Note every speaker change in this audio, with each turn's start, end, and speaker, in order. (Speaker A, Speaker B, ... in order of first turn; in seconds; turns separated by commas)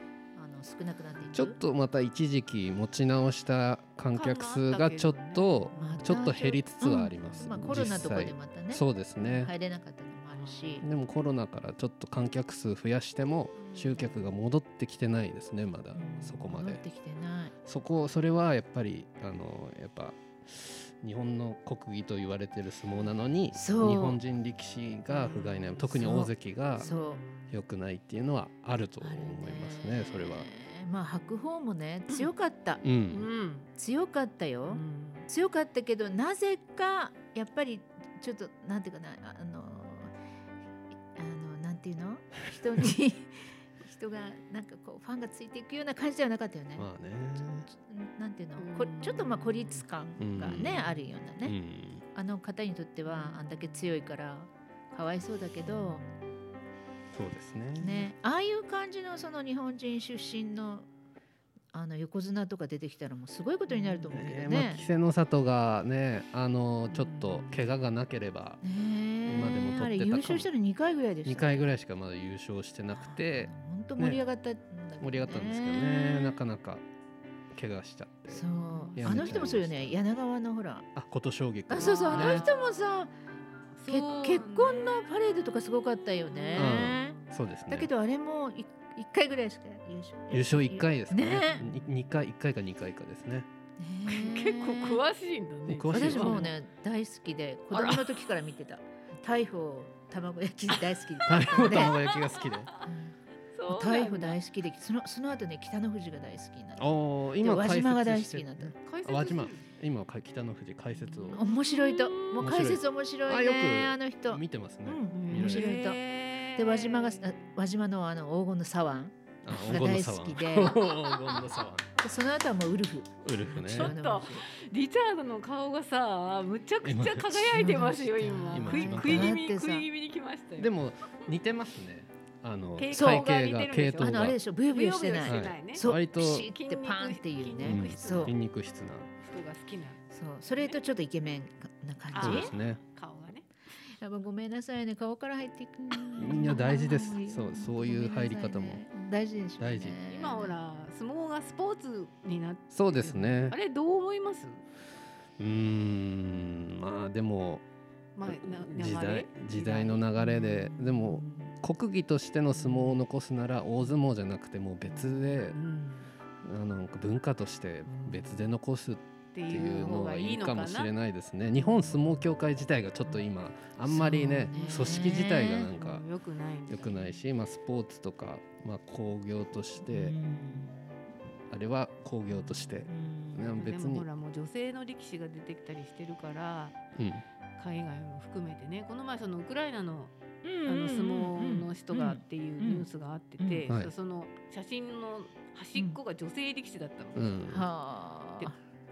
Speaker A: 0.3-1.6, Speaker B: 1.3-9.5, Speaker C: 4.1-6.3, Speaker A: 5.7-10.8, Speaker C: 10.3-10.8, Speaker B: 10.8-16.8, Speaker C: 13.6-14.3, Speaker A: 15.9-17.5, Speaker B: 17.6-26.9, Speaker A: 23.6-24.2, Speaker C: 25.1-26.0, Speaker A: 25.9-27.2, Speaker C: 26.8-27.6, Speaker B: 27.5-30.5, Speaker A: 29.0-32.8, Speaker B: 32.8-33.3, Speaker C: 33.1-33.7, Speaker A: 33.8-40.1, Speaker C: 34.7-35.3, Speaker A: 41.1-46.9, Speaker B: 46.8-47.7, Speaker A: 47.7-51.6, Speaker C: 48.6-49.8, Speaker B: 50.2-52.0, Speaker A: 52.1-56.0, Speaker B: 57.1-58.1, Speaker A: 57.8-60.9, Speaker A: 61.7-64.8, Speaker B: 64.0-68.6, Speaker C: 66.9-67.7, Speaker A: 68.6-71.6, Speaker B: 69.3-70.5, Speaker B: 71.3-74.2, Speaker A: 73.0-76.4, Speaker B: 75.0-76.8, Speaker B: 77.5-78.4, Speaker A: 78.3-80.9, Speaker C: 78.4-79.5, Speaker B: 79.0-80.0, Speaker B: 81.0-82.5, Speaker A: 81.7-83.1, Speaker C: 81.7-82.9, Speaker C: 83.8-85.1, Speaker A: 83.9-87.2, Speaker C: 86.3-87.4, Speaker B: 86.5-87.9, Speaker A: 87.7-91.7, Speaker B: 90.3-93.5, Speaker A: 93.8-95.0, Speaker C: 94.1-96.5, Speaker B: 95.7-96.5, Speaker A: 95.9-102.0, Speaker C: 97.7-98.1, Speaker B: 101.3-102.7, Speaker A: 102.9-103.1, Speaker C: 103.5-104.4, Speaker A: 103.7-108.8, Speaker B: 106.8-111.4, Speaker C: 108.8-109.7, Speaker C: 111.1-112.5, Speaker A: 111.3-116.0, Speaker B: 112.4-115.8, Speaker C: 115.1-117.5, Speaker A: 116.5-120.8, Speaker B: 119.4-121.9, Speaker C: 120.8-121.4, Speaker A: 122.0-124.5, Speaker B: 123.2-124.0, Speaker C: 123.7-130.7, Speaker B: 126.8-127.8, Speaker A: 127.5-129.9, Speaker B: 128.5-129.4, Speaker B: 130.6-134.4, Speaker C: 132.8-135.9, Speaker A: 132.9-133.3, Speaker A: 134.0-138.3, Speaker B: 135.3-136.5, Speaker C: 136.5-138.4, Speaker B: 137.6-139.1, Speaker C: 139.2-140.0, Speaker A: 140.1-142.5, Speaker C: 142.1-143.5, Speaker B: 142.2-142.8, Speaker A: 144.0-150.6, Speaker B: 146.2-148.8, Speaker B: 149.6-150.0, Speaker C: 150.1-154.6, Speaker B: 152.7-153.6, Speaker B: 155.4-157.6, Speaker C: 158.2-160.5, Speaker B: 158.3-165.6, Speaker A: 160.5-161.2, Speaker C: 161.2-161.6, Speaker C: 162.6-163.0, Speaker C: 164.8-166.1, Speaker B: 166.4-176.0, Speaker C: 167.9-168.5, Speaker C: 169.3-170.9, Speaker C: 171.6-172.1, Speaker A: 173.8-175.7, Speaker C: 174.5-177.2, Speaker B: 176.7-180.2, Speaker A: 179.9-180.8, Speaker B: 181.5-184.1, Speaker A: 182.9-183.6, Speaker C: 183.5-186.8, Speaker B: 187.0-187.2, Speaker C: 187.6-190.1, Speaker A: 190.4-192.9, Speaker C: 190.7-197.3, Speaker A: 193.4-193.7, Speaker B: 197.2-197.7, Speaker A: 197.5-198.6